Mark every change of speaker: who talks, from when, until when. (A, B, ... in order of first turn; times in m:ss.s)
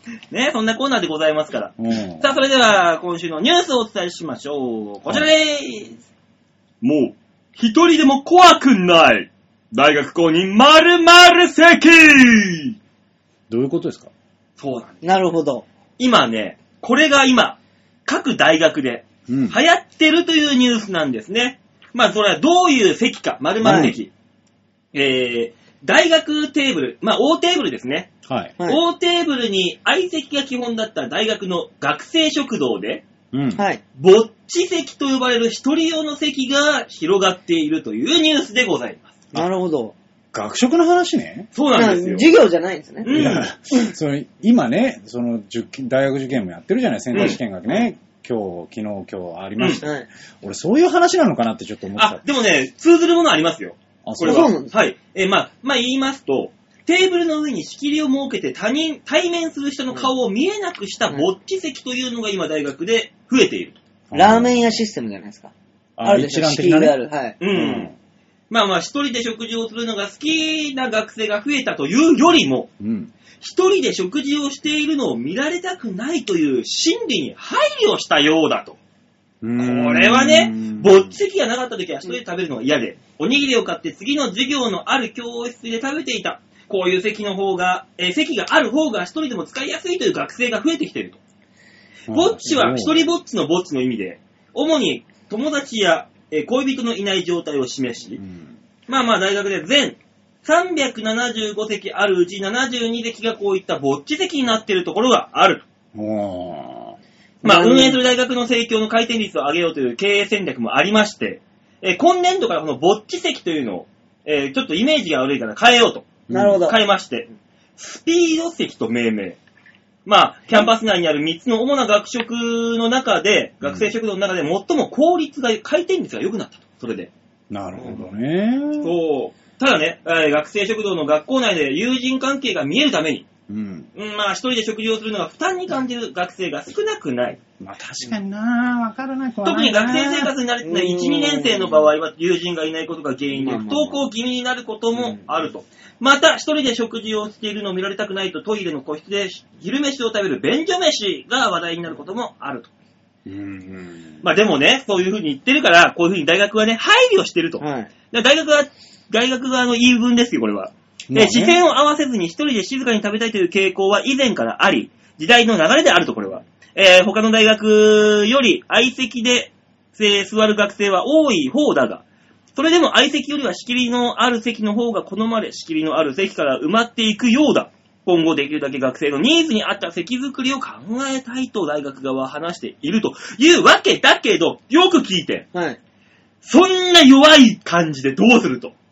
0:00.3-0:06.0 A
0:01.8-0:02.3 B
0:06.8-0:12.8 A
0:13.5-0:14.1 B
0:14.6-0:15.0 A
0:15.0-0:15.7 C
0:16.0-0:24.1 A
0:19.3-0:19.6 B
0:23.6-0:24.0 B
0:23.6-0:23.9 C
0:24.9-0:28.1 A
0:28.3-0:28.5 B
0:28.6-0:33.0 A
0:33.3-0:33.6 B
0:33.6-0:33.8 C
0:34.0-0:39.2 A
0:39.3-0:40.0 C
0:40.3-0:41.5 B
0:41.6-0:42.3 A
0:41.7-0:43.4 C
0:43.0-0:43.5 A
0:43.1-0:49.9 B
0:47.1-0:47.4 A
0:49.6-0:49.8 A
0:49.8-0:50.1 C
0:50.4-0:52.2 B
0:52.0-1:03.8 A
0:54.0-0:54.5 B
0:54.2-0:54.7 C
1:04.1-1:04.8 B
1:04.1-1:07.8 C
1:06.0-1:07.0 B
1:07.4-1:07.9 A
1:07.6-1:07.9 B
1:08.5-1:12.7 A
1:12.8-1:13.1 B
1:13.4-1:18.8 A
1:19.4-1:21.1 B
1:19.6-1:31.2 A
1:32.1-1:33.0 B
1:32.1-1:38.2 A
1:38.2-1:38.5 B
1:38.9-1:45.6 A
1:46.0-1:47.0 B
1:47.4-1:48.0 C
1:47.4-1:59.4 A
1:56.3-1:56.6 B
1:56.3-1:56.8 C
2:00.1-2:07.1 A
2:03.6-2:03.9 B
2:07.5-2:08.9 B
2:08.8-2:13.3 A
2:13.5-2:13.9 B
2:14.0-2:17.4 A
2:17.6-2:20.3 B
2:19.4-2:32.7 A
2:20.6-2:21.9 C
2:23.3-2:24.0 C
2:33.3-2:34.2 B
2:34.2-2:52.0 A
2:37.6-2:37.9 C
2:41.1-2:41.6 B
2:52.6-3:05.5 A
3:05.5-3:05.8 C
3:06.4-3:08.7 A